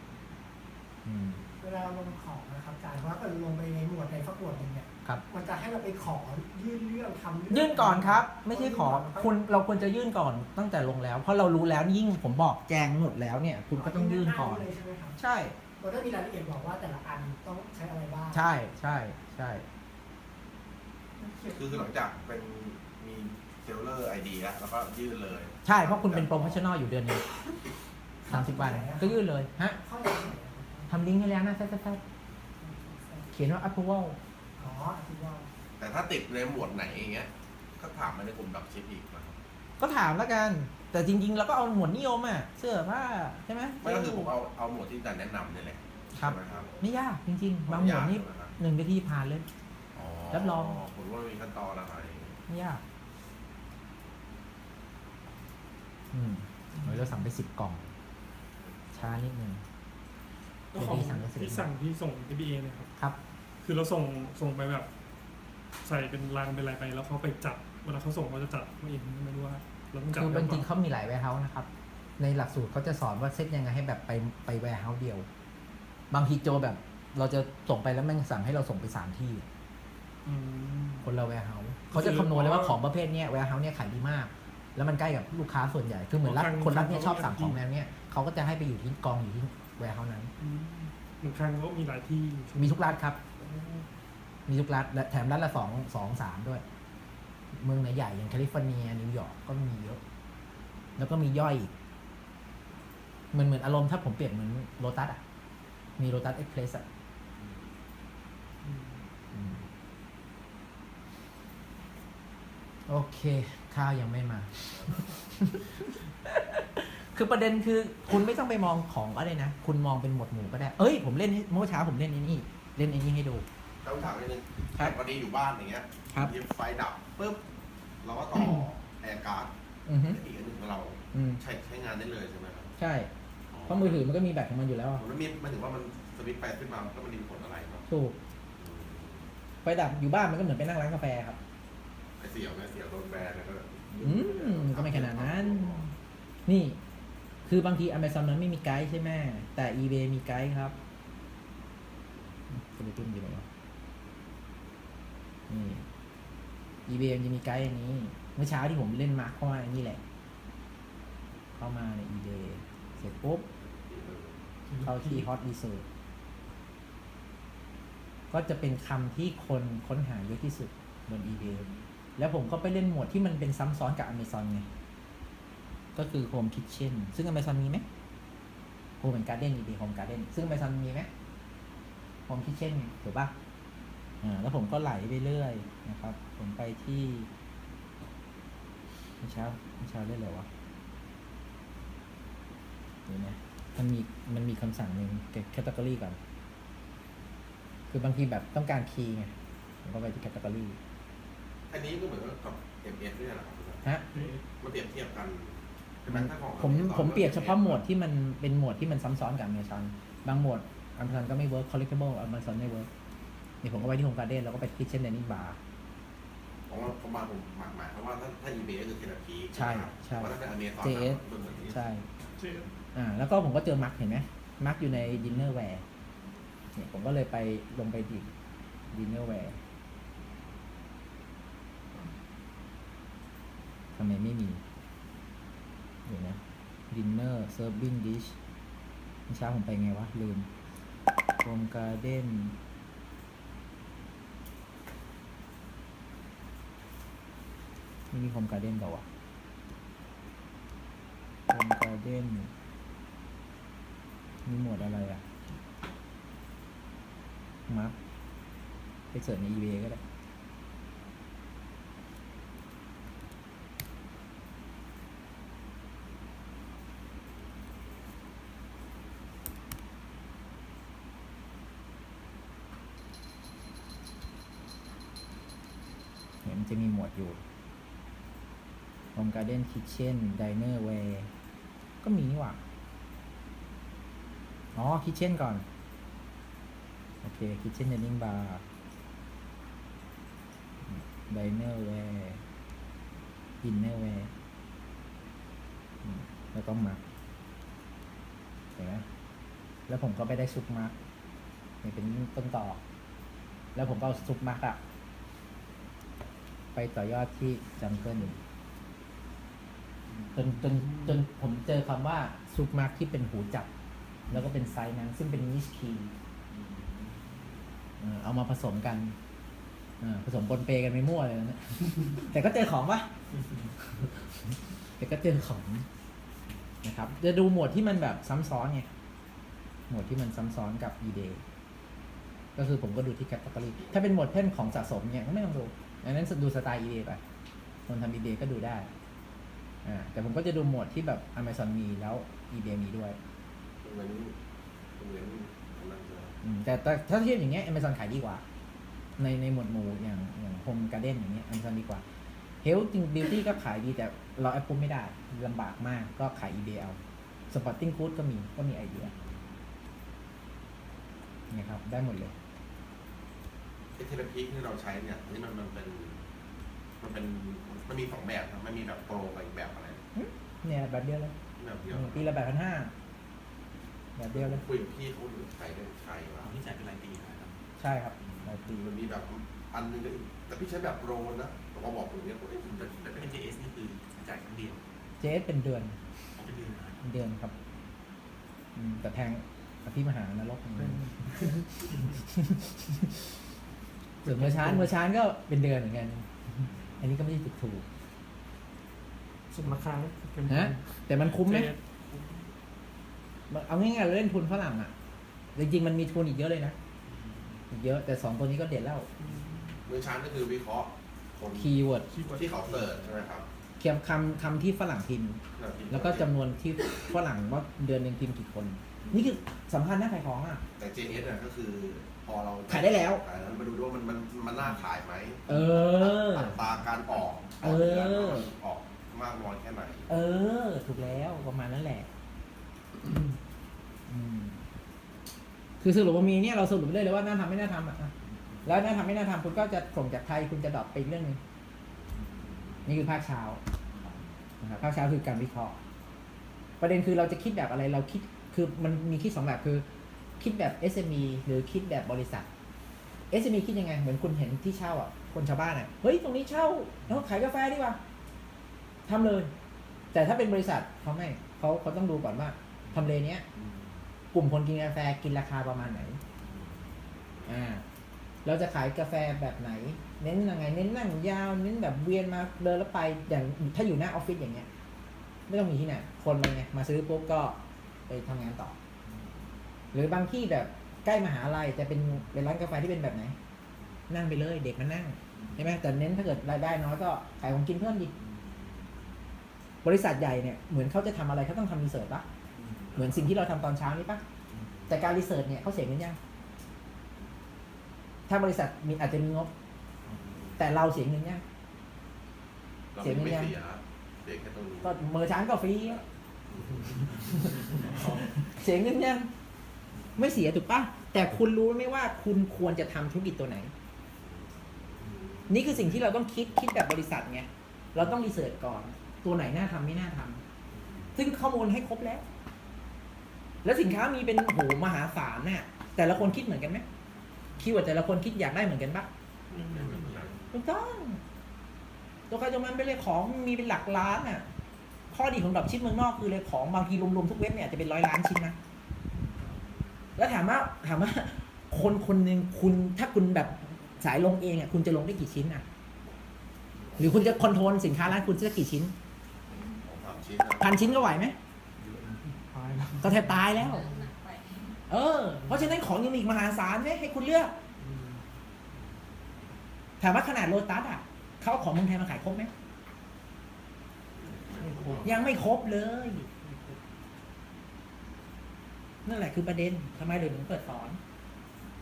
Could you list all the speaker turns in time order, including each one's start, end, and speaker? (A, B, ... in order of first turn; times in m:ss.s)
0:01.0-0:01.4 A
0:01.6-0:09.3 B
0:07.5-0:14.6 A
0:13.8-0:15.2 B
0:15.2-0:15.6 A
0:15.8-0:18.4 B
0:18.3-0:19.6 A
0:21.2-0:21.7 B
0:21.5-0:26.7 C
0:25.6-0:27.2 A
0:28.2-0:29.2 B
0:28.3-0:29.8 A
0:29.8-0:30.9 B
0:30.9-0:32.0 A
0:32.6-0:33.3 B
0:33.3-0:34.2 A
0:34.6-0:35.5 B
0:35.8-0:39.4 C
0:39.8-0:44.3 A
0:43.8-0:46.7 C
0:46.2-0:49.5 A
0:47.7-0:48.6 C
0:49.9-0:52.4 C
0:50.3-0:50.8 A
0:52.5-0:52.8 A
0:56.1-0:57.9 A
0:58.9-0:59.6 A
1:00.7-1:02.9 D
1:00.8-1:01.7 A
1:03.6-1:04.9 D
1:05.8-1:10.7 D
1:10.1-1:11.7 A
1:12.2-1:15.3 A
1:16.1-1:19.5 A
1:20.2-1:21.1 D
1:21.0-1:30.3 A
1:21.9-1:22.8 D
1:26.2-1:27.6 D
1:30.4-1:32.8 D
1:32.6-1:33.2 A
1:33.4-1:33.9 D
1:34.5-1:36.6 A
1:37.5-1:40.0 A
1:41.0-1:41.7 A
1:43.3-1:45.2 A
1:46.0-1:46.8 A
1:48.6-1:49.0 D
1:49.3-1:49.6 A
1:52.9-2:03.4 A
2:03.8-2:07.4 C
2:08.0-2:09.5 C
2:08.4-2:08.6 A
2:09.9-2:10.2 A
2:10.0-2:12.7 C
2:11.1-2:11.4 A
2:12.8-2:13.1 A
2:13.5-2:14.1 C
2:13.7-2:15.0 A
2:15.0-2:17.9 C
2:17.9-2:18.2 A
2:18.6-2:19.3 C
2:19.6-2:21.4 A
2:22.2-2:25.9 C
2:24.0-2:25.9 A
2:26.5-2:26.8 A
2:27.5-2:30.8 A
2:32.5-2:33.4 A
2:35.5-2:35.8 A
2:36.9-2:40.0 A
2:41.6-2:43.5 A
2:43.8-2:44.4 C
2:44.7-2:45.3 D
2:44.8-2:45.8 A
2:48.3-2:51.7 A
2:52.2-2:54.7 A
2:56.0-2:57.8 A
2:59.0-3:01.1 A
3:02.3-3:03.3 A
3:04.2-3:07.3 A
3:09.2-3:10.5 A
3:13.1-3:16.2 A
3:17.9-3:19.3 A
3:19.8-3:20.8 A
3:21.7-3:27.8 C
3:24.1-3:24.4 D
3:26.1-3:32.9 A
3:33.6-3:35.6 A
3:36.7-3:41.8 C
3:39.5-3:42.1 A
3:42.4-3:42.7 D
3:42.9-3:45.8 A
3:46.8-3:48.3 A
3:48.9-3:49.6 A
3:54.0-3:54.6 A
3:56.1-3:56.4 A
3:56.9-3:58.4 A
3:59.3-4:00.5 A
4:01.4-4:02.6 A
4:08.1-4:09.0 A
4:11.5-4:12.5 A
4:14.5-4:15.2 A
4:17.7-4:18.0 A
4:19.1-4:20.0 A
4:36.4-4:37.4 A
4:39.2-4:41.3 A
4:42.0-4:42.6 A
4:44.8-4:45.6 A
4:47.2-4:48.6 A
4:50.8-4:52.4 A
4:53.6-4:54.3 A
4:56.0-4:57.0 A
4:58.8-4:59.0 A
4:59.9-5:00.9 A
5:01.8-5:02.8 A
5:03.8-5:04.8 A
5:06.8-5:08.4 A
5:10.3-5:13.7 A
5:14.3-5:16.1 A
5:18.0-5:19.2 A
5:20.0-5:23.1 A
5:25.0-5:25.8 A
5:26.8-5:28.9 A
5:29.9-5:31.4 A
5:32.6-5:37.2 A
5:37.9-5:38.9 A
5:39.8-5:43.2 A
5:43.8-5:44.4 C
5:45.0-5:46.4 C
5:46.4-5:48.4 A
5:49.2-5:52.0 A
5:52.6-5:57.0 A
5:57.5-5:59.1 A
6:01.5-6:02.3 A
6:04.0-6:06.2 C
6:07.0-6:10.0 C
6:10.2-6:11.3 A
6:11.6-6:12.3 C
6:11.9-6:12.9 A
6:14.2-6:14.6 A
6:14.3-6:16.6 C
6:16.4-6:17.6 E
6:17.8-6:18.9 A
6:18.8-6:23.4 C
6:23.1-6:24.8 E
6:25.2-6:26.0 A
6:26.4-6:27.0 E
6:27.0-6:27.5 A
6:28.8-6:33.2 A
6:30.8-6:31.6 D
6:34.2-6:34.9 D
6:34.2-6:36.3 A
6:37.0-6:37.8 A
6:39.5-6:41.8 D
6:40.5-6:41.7 A
6:43.5-6:44.9 A
6:45.6-6:46.8 A
6:47.7-6:49.1 A
6:49.2-6:49.8 D
6:49.9-6:53.5 C
6:51.5-6:52.1 A
6:52.1-6:52.9 D
6:53.8-6:55.4 A
6:55.6-6:56.4 C
6:55.9-7:00.6 A
7:00.8-7:10.1 C
7:02.7-7:03.2 A
7:05.5-7:06.6 A
7:07.6-7:08.5 A
7:10.1-7:12.1 A
7:14.1-7:14.6 A
7:15.8-7:18.1 A
7:18.6-7:21.4 A
7:22.9-7:23.6 A
7:24.6-7:25.8 A
7:26.8-7:29.9 A
7:30.4-7:32.5 A
7:33.3-7:38.0 A
7:39.1-7:39.5 A
7:40.1-7:43.4 A
7:44.3-7:46.2 A
7:46.4-7:46.9 C
7:47.5-7:47.8 A
7:48.4-7:54.7 A
7:55.5-7:58.8 A
7:59.9-8:03.4 A
8:04.1-8:08.1 A
8:09.8-8:12.2 A
8:12.9-8:14.2 A
8:14.9-8:16.2 A
8:18.3-8:19.5 A
8:20.6-8:21.4 A
8:22.9-8:25.0 C
8:23.0-8:23.5 A
8:24.8-8:26.0 A
8:26.5-8:26.9 C
8:27.3-8:29.3 A
8:30.2-8:33.7 A
8:34.3-8:35.5 C
8:35.5-8:40.4 A
8:40.8-8:41.1 C
8:41.2-8:42.2 A
8:43.6-8:46.8 A
8:47.6-8:49.1 A
8:49.5-8:50.4 C
8:49.5-8:49.9 D
8:50.5-8:51.2 A
8:52.3-8:54.4 A
8:55.1-8:58.6 A
9:00.2-9:05.6 A
9:07.0-9:08.9 A
9:09.8-9:11.2 C
9:10.6-9:11.4 A
9:12.0-9:13.6 D
9:13.0-9:13.9 A
9:14.9-9:17.5 A
9:20.0-9:22.5 A
9:24.2-9:25.3 C
9:24.6-9:26.3 A
9:26.4-9:26.8 D
9:29.0-9:31.0 A